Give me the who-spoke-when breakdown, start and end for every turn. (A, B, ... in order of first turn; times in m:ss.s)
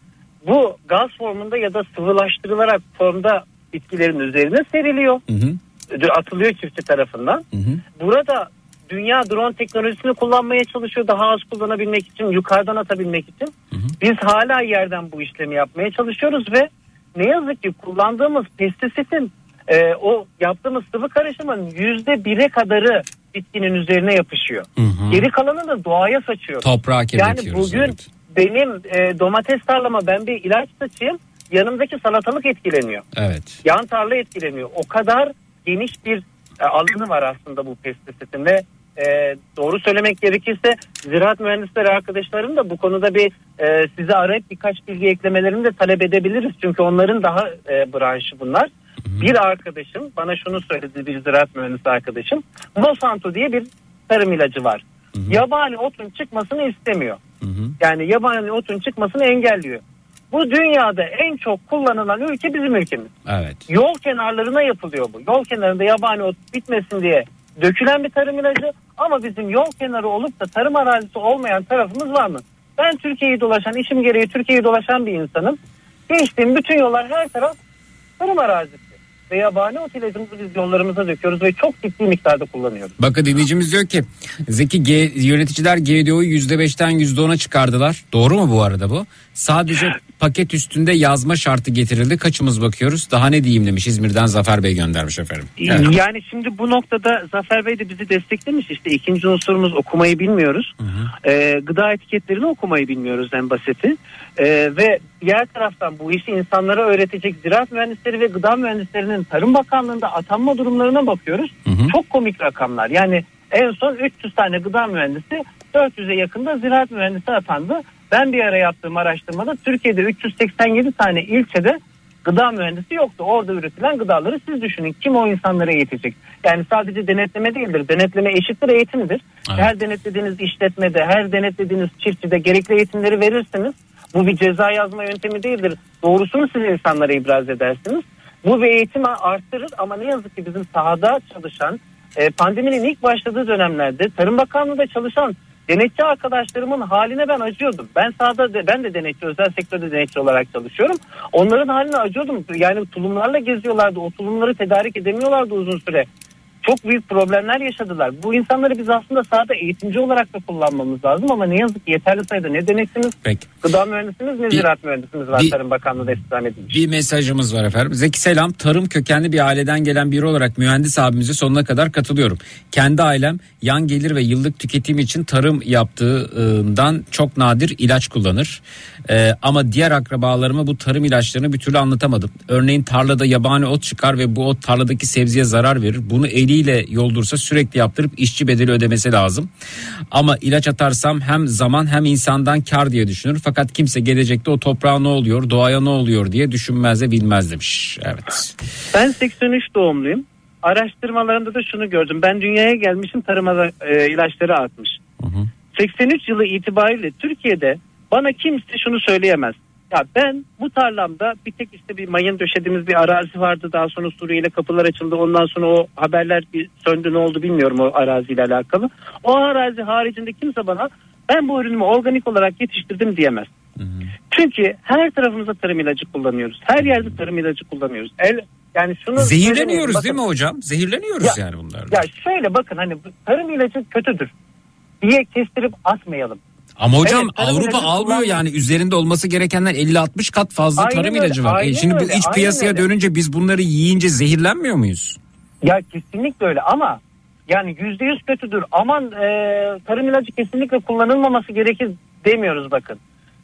0:00.4-0:05.2 A
0:05.3-0:05.6 B
0:05.9-0:07.4 A
0:07.5-0:07.8 B
0:08.0-0:33.0 A
0:24.8-0:25.3 B
0:26.6-0:28.0 B
0:33.2-0:33.6 B
0:33.6-0:57.2 A
0:49.0-0:49.3 B
0:55.2-0:55.4 B
0:57.4-0:57.7 B
0:57.8-1:03.1 A
1:03.3-1:03.6 B
1:03.7-1:15.6 A
1:16.1-1:17.6 A
1:18.2-1:22.9 A
1:23.0-1:35.9 B
1:35.6-1:40.7 A
1:40.8-1:41.1 B
1:41.2-2:36.1 A
1:51.7-1:51.9 B
2:36.6-2:46.8 A
2:46.7-3:09.5 B
3:10.1-3:18.5 B
3:18.9-3:25.0 A
3:25.2-3:25.5 B
3:25.7-3:43.5 A
3:43.8-3:44.1 B
3:44.3-3:50.2 A
3:46.8-3:47.2 B
3:49.2-3:52.0 B
3:51.9-3:54.3 A
3:55.0-3:56.4 A
3:56.8-4:05.2 B
3:57.0-3:58.4 A
4:00.8-4:02.8 A
4:05.6-4:13.0 A